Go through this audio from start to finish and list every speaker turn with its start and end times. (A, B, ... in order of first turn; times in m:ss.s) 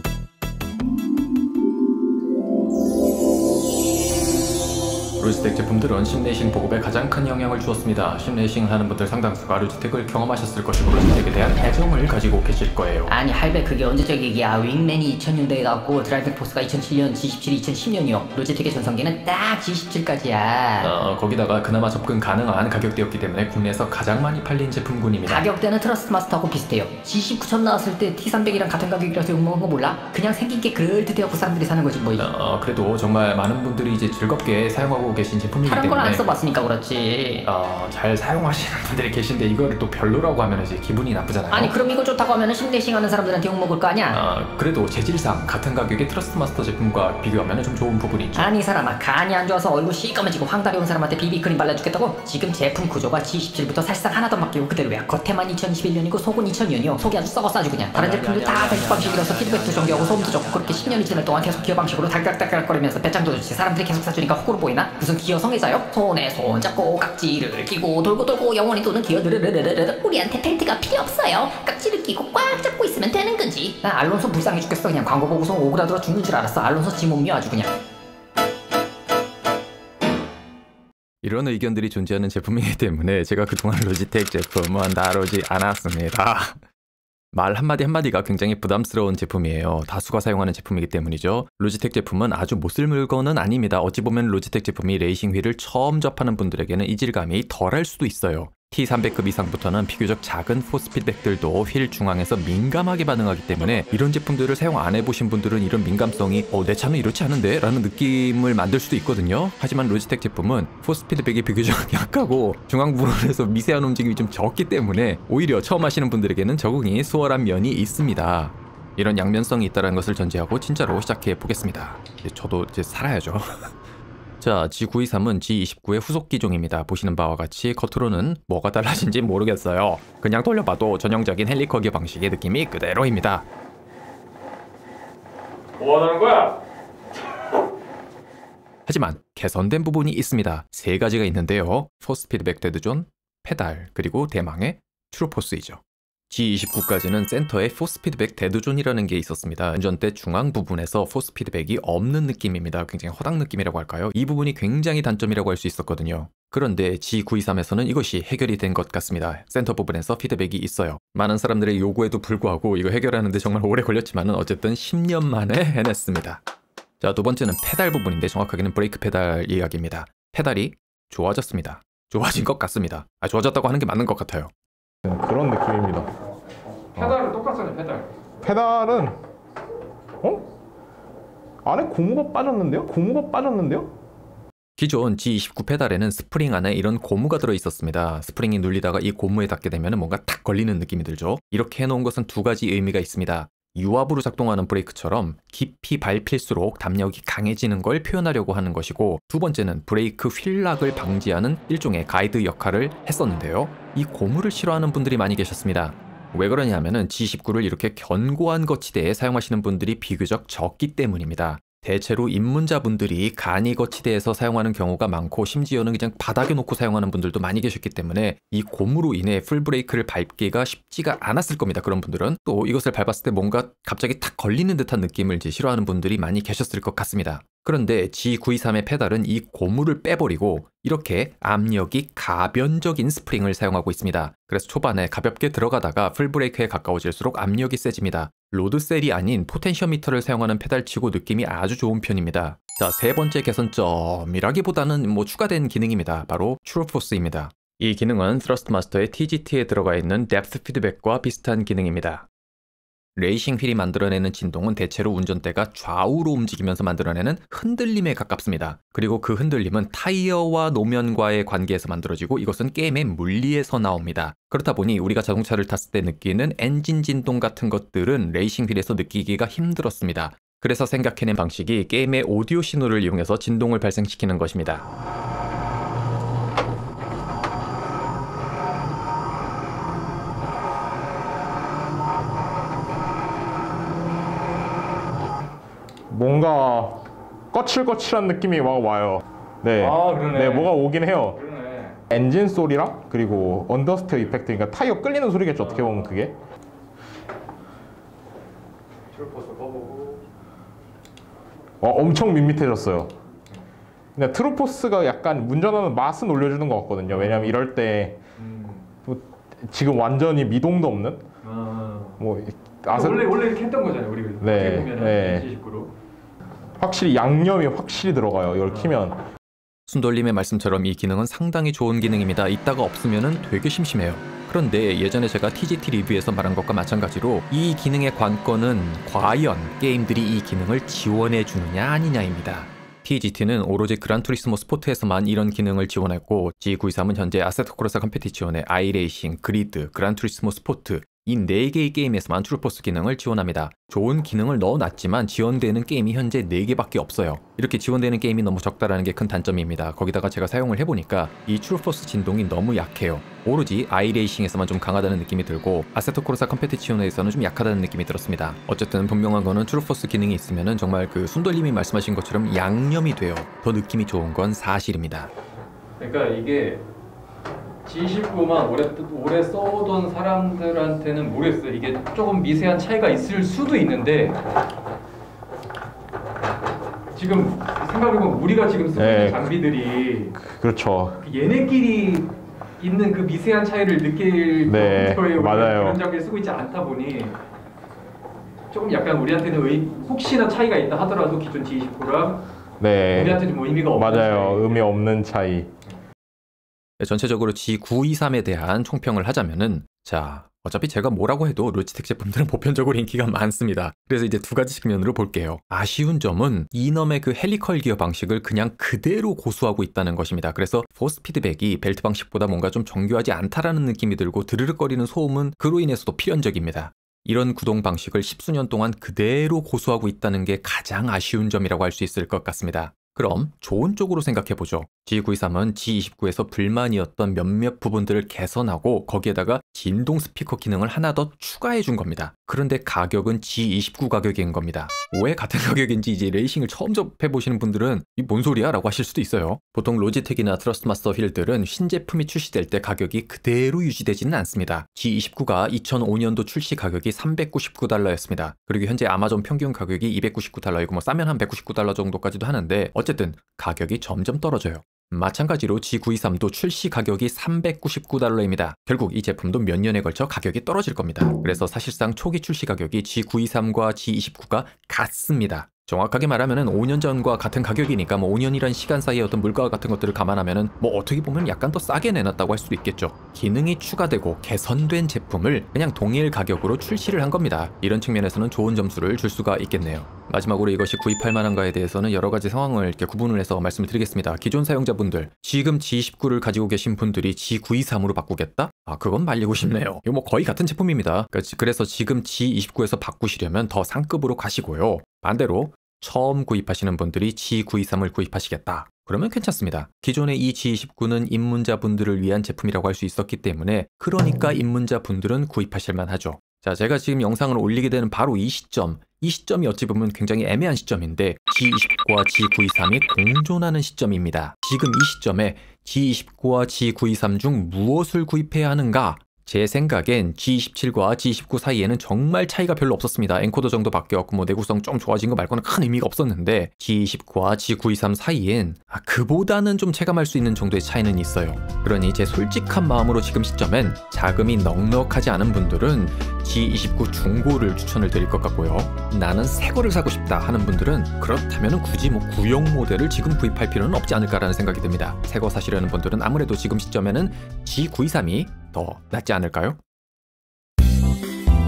0:05.2-0:13.1 A
0:13.1-0:20.9 B
0:20.8-0:25.5 A
0:25.2-0:32.3 B
0:32.2-0:36.3 A
0:35.6-0:37.4 B
0:37.4-0:41.7 A
0:41.5-0:44.2 B
0:44.1-0:48.5 A
0:48.3-1:17.7 B
0:57.9-1:02.0 A
1:21.2-1:26.6 A
1:27.3-2:03.7 A
2:04.4-2:13.5 A
2:15.8-2:16.5 C
2:18.9-2:46.4 A
2:47.0-2:54.5 A
2:55.0-2:56.1 D
2:57.0-2:58.1 C
2:58.4-2:59.2 D
3:01.6-3:03.9 D
3:04.8-4:12.2 A
4:13.2-4:34.8 A
4:46.1-4:47.0 D
4:47.5-4:51.4 D
4:49.8-4:50.7 C
4:51.4-4:52.0 C
4:52.1-4:56.4 D
4:55.6-4:56.2 C
4:59.1-5:00.2 C
5:01.8-5:03.1 D
5:04.2-5:08.2 D
5:07.1-5:07.5 C
5:08.4-5:08.8 C
5:09.0-5:11.2 D
5:11.4-5:12.2 C
5:12.2-5:13.3 D
5:12.9-5:15.9 C
5:14.4-5:15.4 D
5:16.8-5:19.2 D
5:18.7-5:18.9 C
5:19.9-6:05.3 A
6:06.0-6:06.8 C
6:07.8-6:14.4 C
6:17.1-6:20.3 C
6:19.0-6:19.5 D
6:20.4-6:21.2 D
6:21.2-6:27.4 C
6:24.6-6:26.0 D
6:28.7-6:32.4 C
6:32.8-6:35.7 D
6:33.1-6:34.9 C
6:37.0-9:09.8 A